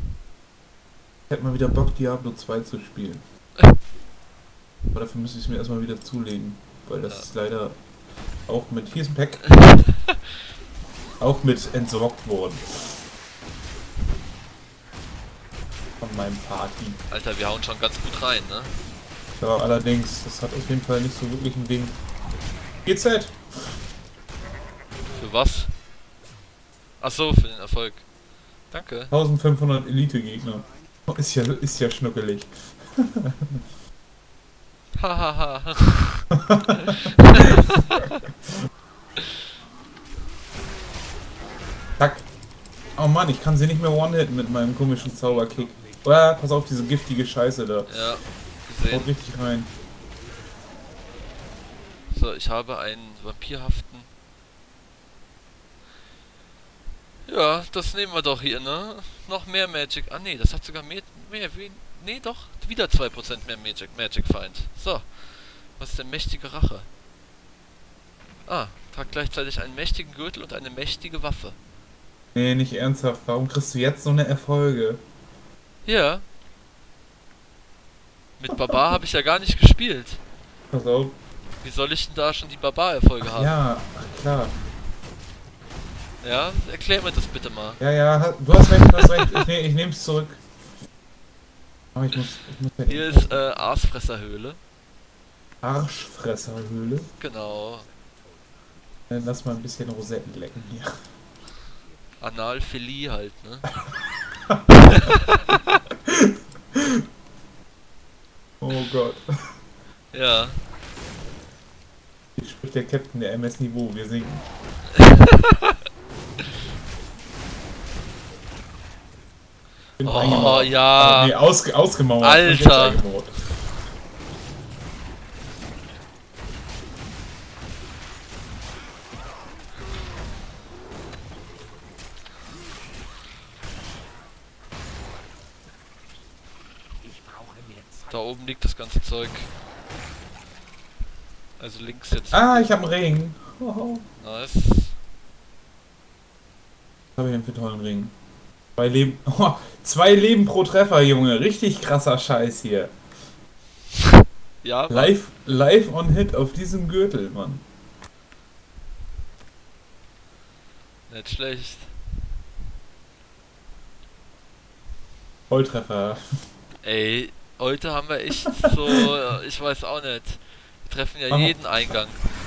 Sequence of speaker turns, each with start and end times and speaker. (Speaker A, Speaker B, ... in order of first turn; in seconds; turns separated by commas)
Speaker A: 1.3-3.2, Speaker A: 4.9-10.0, Speaker A: 11.2-13.0, Speaker A: 16.0-17.0, Speaker B: 17.1-18.8, Speaker A: 19.4-22.1, Speaker A: 22.8-23.8, Speaker B: 25.1-25.8, Speaker B: 27.0-29.1, Speaker A: 29.1-33.3, Speaker B: 34.9-36.2, Speaker A: 42.0-48.3, Speaker B: 47.9-49.1, Speaker A: 48.9-49.7, Speaker B: 52.1-54.1, Speaker B: 57.2-66.9, Speaker B: 68.4-71.6, Speaker A: 72.3-75.0, Speaker B: 75.8-76.2, Speaker B: 78.4-80.2, Speaker A: 80.7-81.2, Speaker B: 81.6-83.6, Speaker A: 83.2-84.6, Speaker B: 86.2-87.8, Speaker A: 87.8-90.5, Speaker B: 88.8-89.3, Speaker A: 91.9-93.4, Speaker B: 92.8-94.6, Speaker A: 95.6-97.1, Speaker B: 97.2-97.9, Speaker A: 99.1-101.1, Speaker B: 102.2-103.7, Speaker A: 108.6-109.5, Speaker B: 110.1-110.6, Speaker A: 112.3-114.5, Speaker A: 120.0-123.7, Speaker B: 120.0-121.4, Speaker B: 122.2-123.0, Speaker B: 138.1-139.5, Speaker B: 141.6-142.7, Speaker A: 142.3-144.1, Speaker B: 144.2-145.0, Speaker A: 147.2-148.1, Speaker A: 148.8-152.9, Speaker B: 154.6-155.2, Speaker A: 154.9-157.6, Speaker B: 161.1-162.0, Speaker A: 165.5-166.2, Speaker B: 166.8-172.3, Speaker A: 171.3-171.6